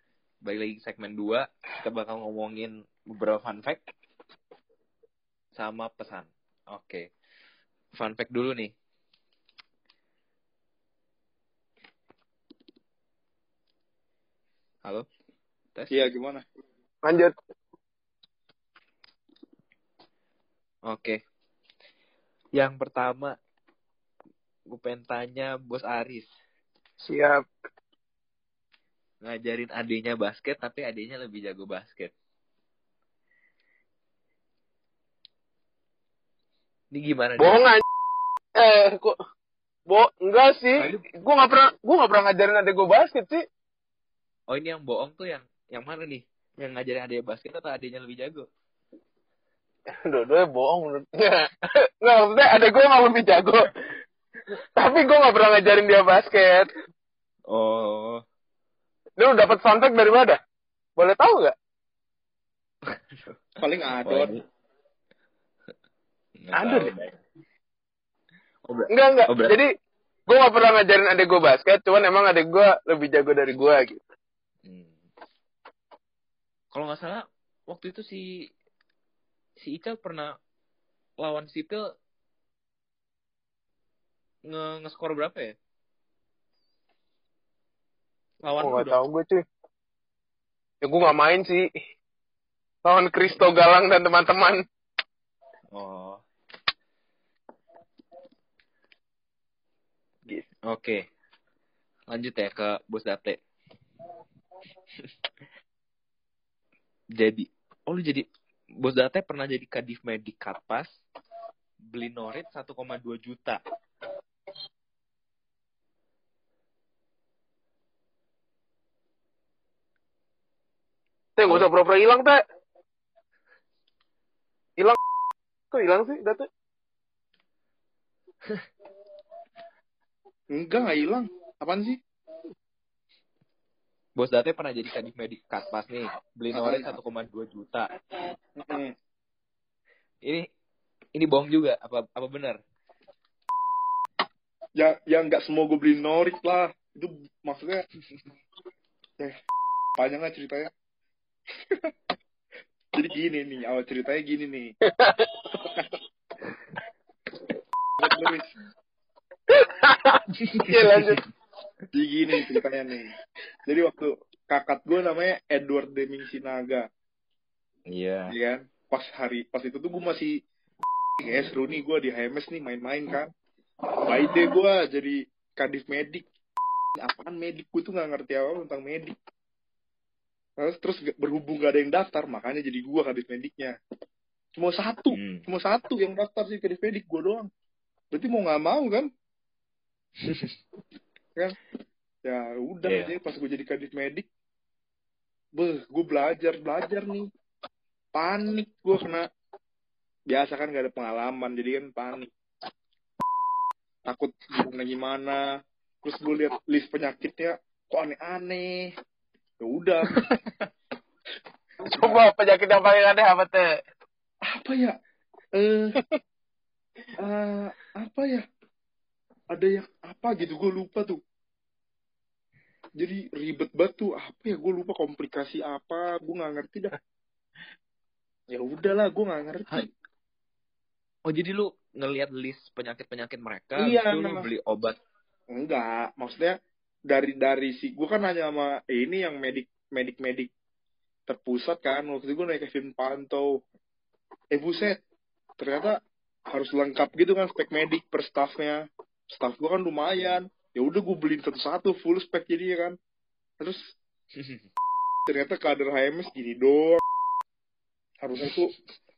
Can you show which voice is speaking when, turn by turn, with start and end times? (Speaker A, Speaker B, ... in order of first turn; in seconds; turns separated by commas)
Speaker A: 0.4-3.8, Speaker A: 5.5-7.1, Speaker A: 7.9-8.7, Speaker A: 15.7-16.0, Speaker B: 15.9-16.4, Speaker C: 17.0-17.3, Speaker A: 20.9-21.2, Speaker A: 22.5-23.3, Speaker A: 24.7-26.3, Speaker C: 27.0-27.4, Speaker A: 29.2-32.1, Speaker A: 36.9-37.7, Speaker C: 37.4-37.8, Speaker C: 38.5-39.2, Speaker C: 39.9-43.4, Speaker A: 40.8-41.0, Speaker A: 44.5-48.5, Speaker C: 49.9-53.7, Speaker C: 54.8-56.7, Speaker A: 57.5-58.2, Speaker C: 59.2-60.4, Speaker C: 61.0-61.5, Speaker B: 63.6-64.3, Speaker A: 64.0-64.4, Speaker A: 66.4-67.2, Speaker C: 66.5-66.9, Speaker A: 68.6-69.6, Speaker C: 68.9-69.7, Speaker C: 70.3-74.0, Speaker A: 74.6-75.0, Speaker A: 76.7-78.3, Speaker A: 79.6-80.3, Speaker A: 81.2-81.9, Speaker A: 84.5-85.5, Speaker A: 88.4-89.0, Speaker C: 88.6-89.4, Speaker C: 90.8-91.7, Speaker C: 92.8-94.6, Speaker A: 95.7-96.2, Speaker A: 100.7-101.0, Speaker A: 102.1-103.4, Speaker A: 107.2-108.2, Speaker A: 108.8-110.9, Speaker A: 111.9-113.6, Speaker C: 121.4-122.4, Speaker C: 125.7-126.5, Speaker B: 130.5-132.0, Speaker A: 134.2-137.9, Speaker B: 136.5-136.9, Speaker B: 138.6-138.9, Speaker A: 141.1-142.6, Speaker B: 144.8-147.8, Speaker B: 150.0-150.7, Speaker B: 152.9-154.7, Speaker C: 154.9-155.5, Speaker B: 158.0-158.5, Speaker C: 159.5-161.2, Speaker A: 160.4-161.2, Speaker B: 161.9-163.1, Speaker B: 163.7-166.8, Speaker A: 167.9-168.3, Speaker B: 168.3-170.3, Speaker B: 171.2-173.3, Speaker B: 174.0-176.2, Speaker B: 177.0-179.1, Speaker B: 180.6-183.7, Speaker B: 184.6-187.5, Speaker A: 185.1-185.4, Speaker B: 188.1-189.1, Speaker A: 190.2-190.6, Speaker B: 192.2-194.3, Speaker A: 192.8-193.1, Speaker B: 195.6-197.3, Speaker B: 198.1-199.3, Speaker B: 200.3-202.3, Speaker B: 204.1-205.5, Speaker B: 206.0-208.9, Speaker B: 209.6-210.3, Speaker C: 211.8-213.8, Speaker B: 214.5-214.9, Speaker B: 215.6-216.0, Speaker B: 217.2-218.4, Speaker B: 219.5-221.2, Speaker B: 223.0-226.9, Speaker B: 228.5-229.9, Speaker A: 231.3-235.0, Speaker B: 233.8-234.4, Speaker B: 235.5-236.6, Speaker B: 237.1-240.5, Speaker B: 241.3-243.5, Speaker B: 244.5-245.0, Speaker B: 245.6-245.9, Speaker B: 246.5-252.9, Speaker A: 254.3-254.6, Speaker B: 255.3-257.0, Speaker B: 258.2-258.7